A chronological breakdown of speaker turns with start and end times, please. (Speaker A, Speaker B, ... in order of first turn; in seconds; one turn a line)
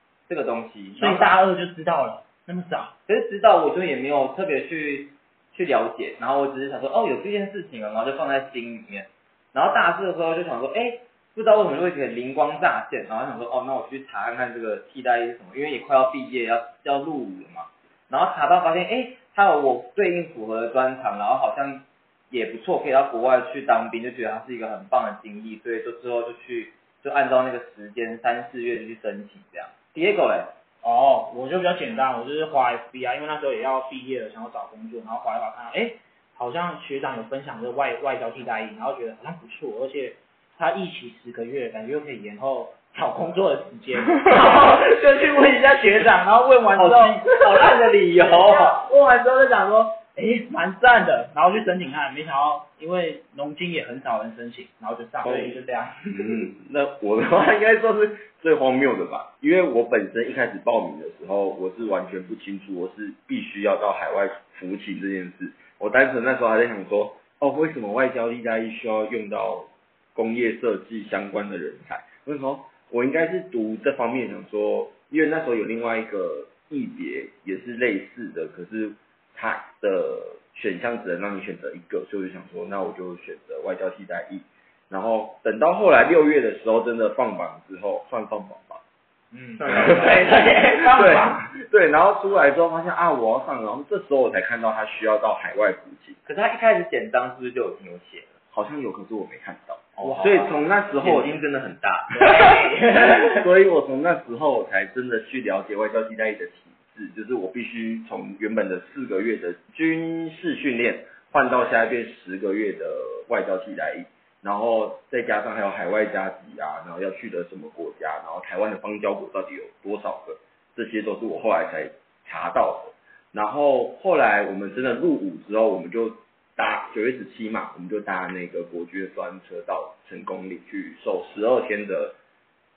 Speaker A: 0.3-1.4
Speaker B: 0.9-3.0
Speaker A: 3.1-30.5
Speaker B: 30.8-56.5
Speaker A: 46.8-48.7
Speaker C: 55.2-55.6
Speaker C: 56.1-88.8
Speaker B: 89.3-91.4
Speaker A: 89.6-90.3
Speaker C: 89.7-90.2
Speaker C: 90.8-96.2
Speaker A: 96.2-98.3
Speaker C: 98.5-101.4
Speaker A: 100.0-102.2
Speaker B: 102.1-103.5
Speaker C: 102.2-132.2